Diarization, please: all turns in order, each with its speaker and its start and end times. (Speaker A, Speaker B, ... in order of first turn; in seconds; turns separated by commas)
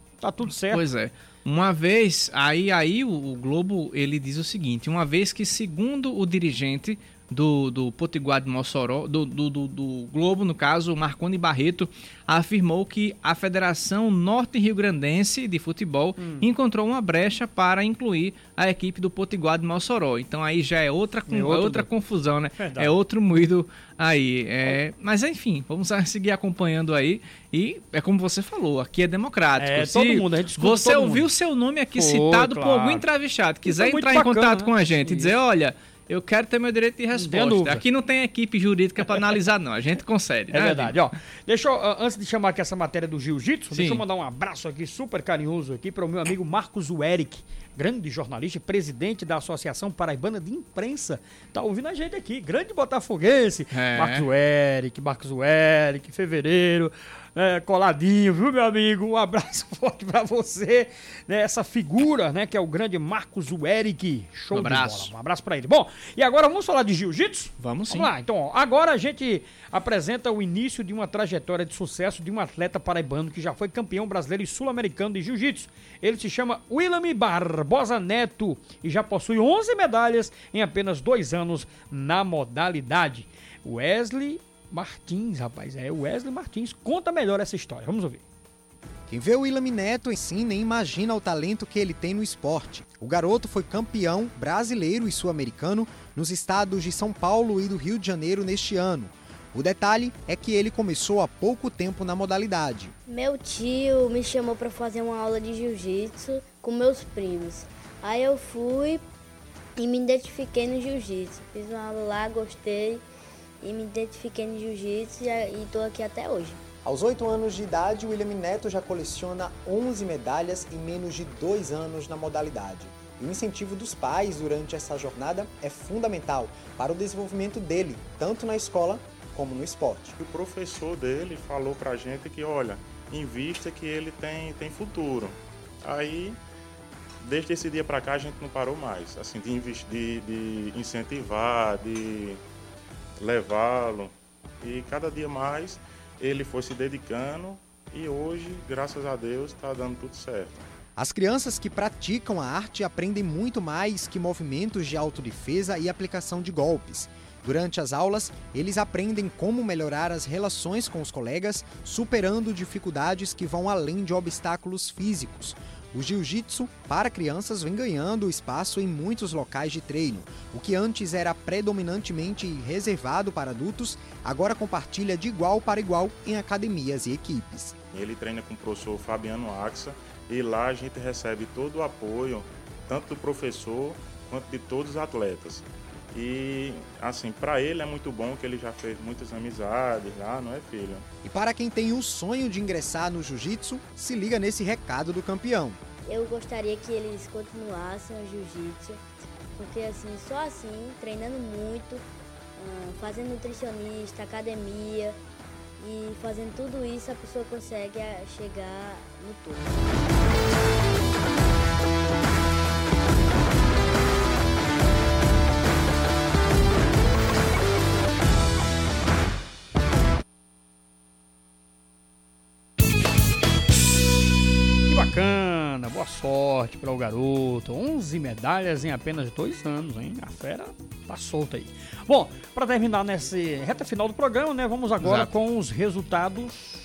Speaker A: 0.2-0.8, Speaker B: 0.7-41.0, Speaker A: 16.2-16.5, Speaker A: 21.3-21.9, Speaker A: 22.6-22.9, Speaker A: 29.6-31.3, Speaker A: 31.9-33.1, Speaker A: 33.7-35.3, Speaker A: 37.1-37.8, Speaker A: 40.5-88.2, Speaker B: 43.7-44.0, Speaker B: 53.7-54.3, Speaker B: 64.5-65.1, Speaker B: 67.6-68.1, Speaker C: 89.1-102.9, Speaker D: 103.1-109.0, Speaker D: 109.8-113.0, Speaker D: 113.6-116.6, Speaker C: 116.8-130.2, Speaker E: 130.2-136.4, Speaker E: 137.2-142.4, Speaker E: 143.2-150.7, Speaker C: 151.0-177.8, Speaker E: 177.9-191.1, Speaker C: 191.2-195.8, Speaker D: 196.1-199.0, Speaker D: 199.6-202.1, Speaker D: 202.6-205.2, Speaker D: 205.8-209.9, Speaker A: 224.9-236.6, Speaker B: 235.0-235.3